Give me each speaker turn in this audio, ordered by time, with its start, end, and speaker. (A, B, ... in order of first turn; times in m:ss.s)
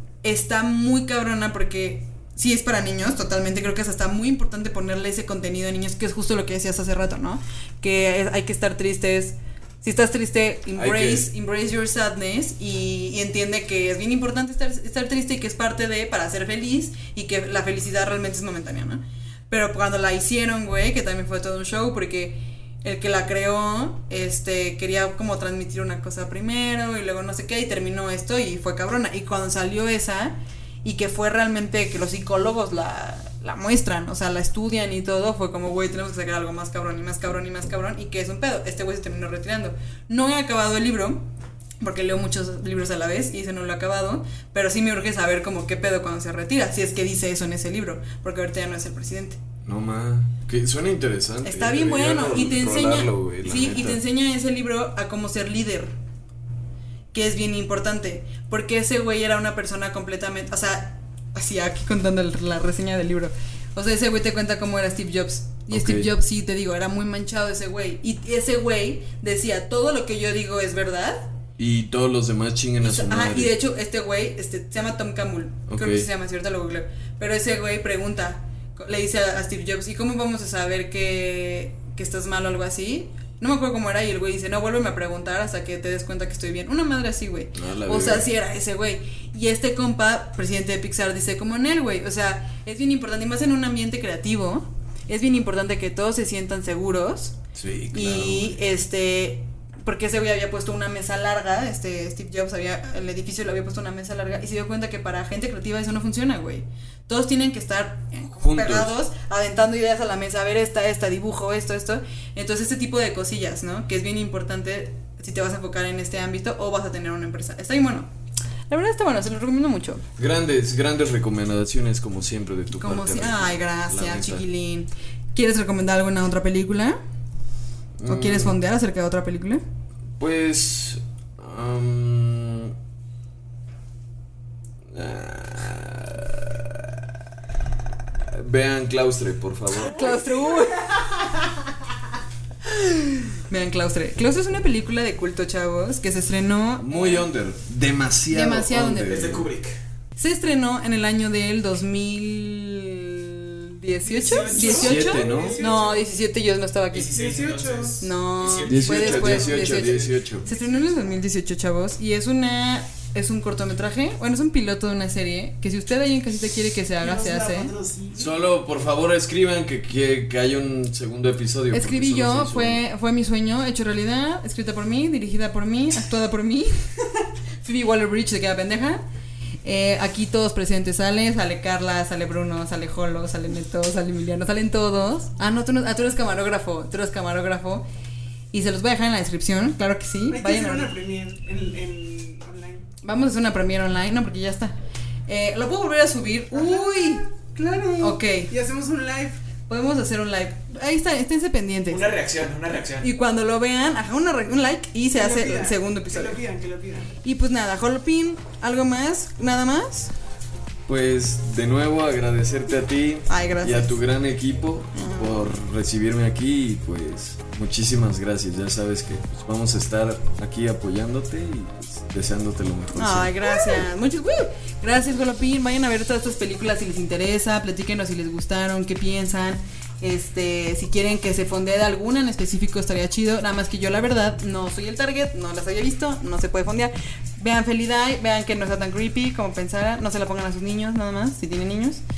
0:00.2-0:41.3 A
0:10.8-0:11.3 B
0:41.8-0:49.4 A
0:49.6-0:54.0 B
0:51.4-0:56.0 A
0:57.1-1:11.3 A
1:05.7-1:06.1 B
1:11.6-1:13.5 B
1:12.8-1:37.4 A
1:15.7-1:16.1 B
1:27.6-1:28.3 B
1:37.6-1:38.6 B
1:37.9-1:58.1 A
1:48.3-1:49.0 B
1:58.7-2:00.0 A
2:00.2-2:04.4 B
2:02.8-2:07.0 A
2:08.0-2:08.6 B
2:08.0-2:09.6 A
2:10.2-2:12.8 B
2:14.9-2:17.1 B
2:18.3-2:20.1 B
2:19.8-2:20.9 A
2:20.0-2:21.5 C
2:23.4-2:27.3 A
2:26.8-2:29.5 B
2:28.3-2:29.3 A
2:29.0-2:29.8 D
2:30.2-2:37.1 A
2:34.1-2:36.1 C
2:34.2-2:36.0 D
2:34.8-2:35.6 B
2:36.9-2:40.2 D
2:37.1-2:38.1 C
2:38.0-2:47.7 A
2:38.6-2:40.5 B
2:47.0-2:48.4 C
2:48.2-2:52.8 B
2:51.7-2:56.7 A
2:57.6-2:59.0 A
2:59.6-3:07.8 A
3:08.5-3:10.9 A
3:10.3-3:12.9 C
3:13.0-3:14.8 A
3:15.3-3:17.3 A
3:16.5-3:19.4 C
3:18.0-3:18.5 A
3:19.7-3:22.1 A
3:21.9-3:23.1 D
3:23.0-3:26.4 A
3:25.1-3:27.1 C
3:27.2-3:30.1 A
3:30.9-3:43.9 B
3:33.3-3:34.0 A
3:34.9-3:35.4 A
3:43.0-4:02.0 A